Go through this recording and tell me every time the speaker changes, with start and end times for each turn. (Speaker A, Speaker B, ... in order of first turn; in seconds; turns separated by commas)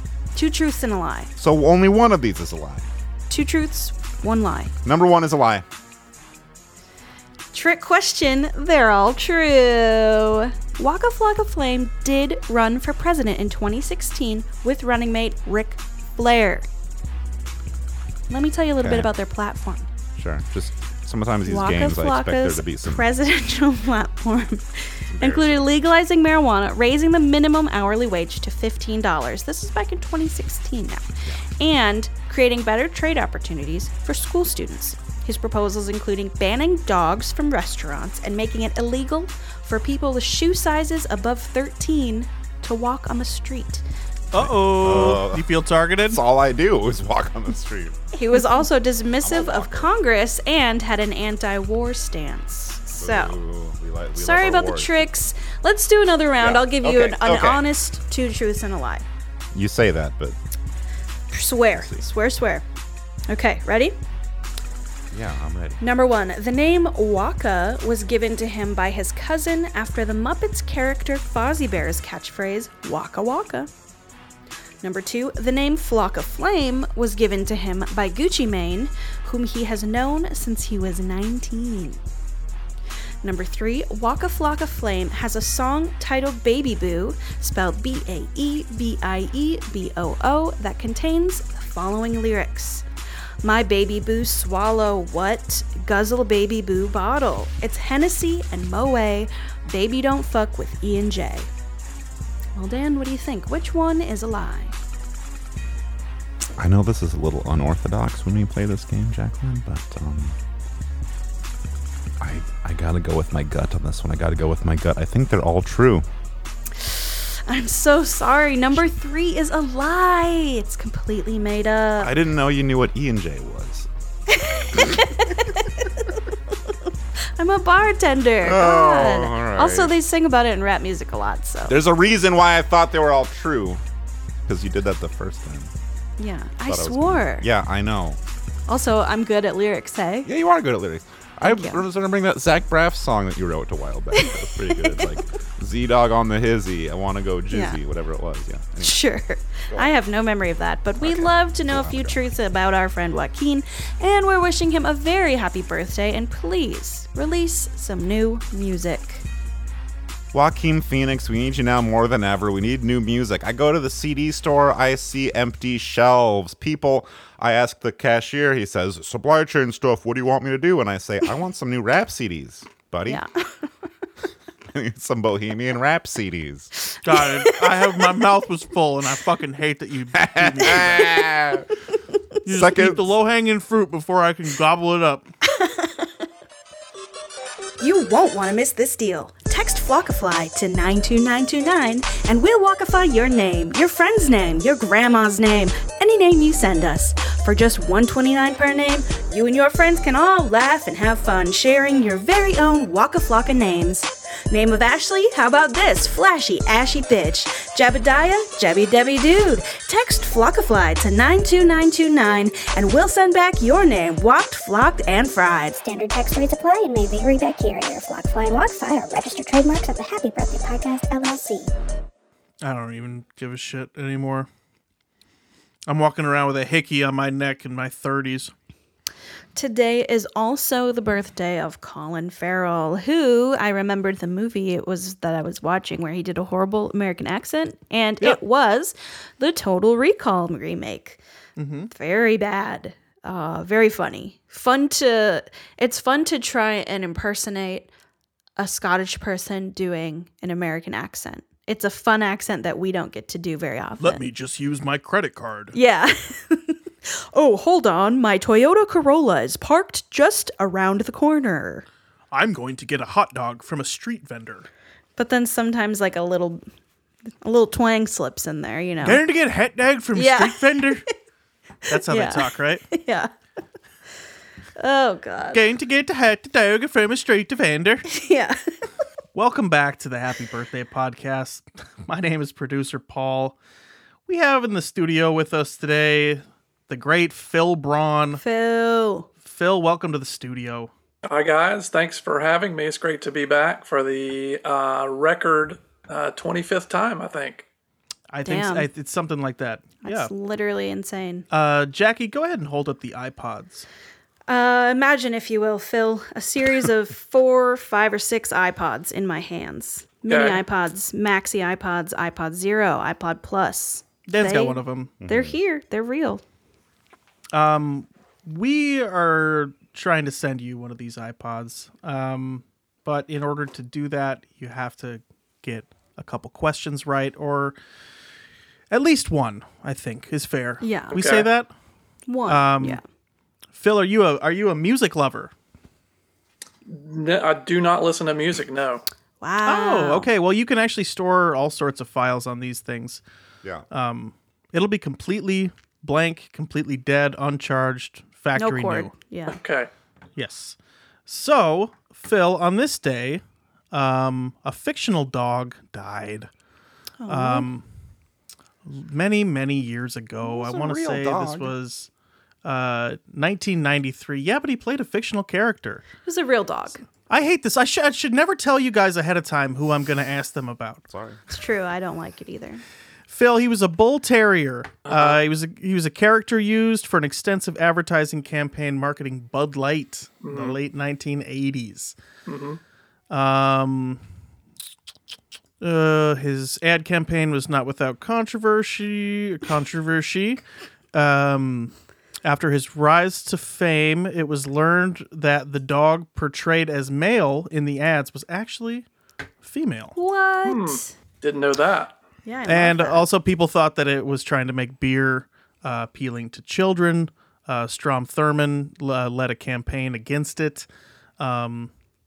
Speaker A: 0.3-1.3, Speaker B: 1.4-2.9, Speaker A: 3.3-4.7, Speaker B: 4.8-5.7, Speaker A: 7.5-16.7, Speaker A: 18.3-19.9, Speaker B: 18.8-19.1, Speaker B: 20.2-23.1, Speaker A: 21.4-43.8, Speaker B: 25.1-25.7, Speaker C: 44.3-46.2, Speaker B: 44.3-45.5, Speaker B: 46.0-48.0, Speaker A: 48.1-53.4, Speaker B: 49.2-49.9, Speaker B: 53.0-55.1, Speaker A: 54.2-59.0, Speaker B: 56.4-57.6, Speaker B: 59.5-60.4, Speaker A: 61.3-62.6, Speaker B: 61.7-62.0, Speaker A: 63.3-64.0, Speaker B: 65.1-65.8, Speaker A: 65.8-73.7, Speaker A: 74.8-82.0, Speaker A: 83.2-92.8, Speaker A: 93.4-101.5, Speaker A: 102.5-104.8, Speaker B: 106.6-110.4, Speaker B: 112.2-116.1, Speaker A: 116.8-122.1, Speaker B: 122.0-123.9, Speaker A: 124.3-126.2, Speaker A: 127.4-131.8, Speaker B: 128.4-129.9, Speaker B: 131.7-133.8, Speaker B: 134.5-135.7, Speaker A: 136.2-137.5, Speaker B: 136.7-138.2, Speaker A: 138.7-140.3, Speaker B: 140.2-149.0, Speaker A: 141.4-141.8, Speaker A: 144.2-145.1, Speaker A: 147.5-147.8, Speaker A: 148.8-159.3, Speaker B: 151.0-152.2, Speaker B: 160.3-173.2, Speaker A: 173.1-173.7, Speaker B: 174.7-176.7, Speaker A: 176.9-177.5, Speaker C: 177.0-181.1, Speaker B: 180.2-181.7, Speaker C: 182.4-185.3, Speaker B: 182.5-183.1, Speaker A: 185.5-186.1, Speaker A: 187.8-215.8, Speaker D: 215.8-221.7, Speaker C: 222.6-224.5, Speaker C: 225.9-228.5, Speaker A: 229.6-241.2, Speaker C: 241.6-241.9, Speaker A: 241.9-247.9, Speaker A: 248.6-254.2, Speaker C: 254.0-255.8, Speaker A: 255.7-261.9, Speaker C: 262.3-264.7, Speaker A: 265.2-266.6, Speaker A: 267.3-269.2, Speaker C: 269.0-271.1, Speaker A: 270.2-270.9, Speaker A: 271.9-273.3, Speaker C: 271.9-272.8, Speaker A: 274.8-275.6, Speaker C: 275.5-278.1, Speaker A: 278.1-278.6, Speaker C: 279.4-283.6, Speaker C: 284.3-288.4, Speaker A: 288.4-289.3, Speaker C: 289.4-290.9, Speaker E: 291.2-297.7, Speaker C: 298.3-300.3, Speaker A: 298.4-298.9, Speaker A: 300.0-301.5, Speaker C: 301.5-303.9, Speaker A: 304.5-316.4, Speaker E: 310.3-310.6, Speaker C: 314.3-315.1, Speaker B: 315.2-315.6, Speaker C: 317.5-327.8, Speaker C: 328.9-331.7, Speaker A: 330.8-331.2, Speaker E: 331.1-331.5, Speaker A: 332.3-333.0, Speaker C: 332.5-333.0, Speaker C: 333.7-335.5, Speaker E: 336.9-339.1, Speaker A: 339.4-340.3, Speaker C: 339.7-343.2, Speaker C: 343.9-349.1, Speaker A: 348.6-349.6, Speaker E: 349.5-349.9, Speaker C: 350.4-350.8, Speaker C: 351.3-353.4, Speaker C: 353.9-356.5, Speaker A: 357.2-357.7, Speaker C: 357.3-357.8, Speaker C: 358.9-362.1, Speaker B: 360.4-361.8, Speaker C: 362.6-366.0, Speaker A: 366.2-367.0, Speaker C: 367.3-371.0, Speaker B: 371.1-371.4, Speaker A: 371.5-372.8, Speaker C: 373.3-382.1, Speaker E: 375.1-375.4, Speaker E: 380.4-380.8, Speaker E: 382.5-382.8, Speaker C: 383.3-384.2, Speaker C: 385.8-390.6, Speaker C: 391.1-391.9, Speaker C: 392.4-399.1, Speaker C: 399.6-400.1, Speaker A: 400.2-401.1, Speaker E: 400.6-402.2, Speaker A: 402.4-403.2, Speaker C: 402.7-410.9, Speaker C: 411.4-411.9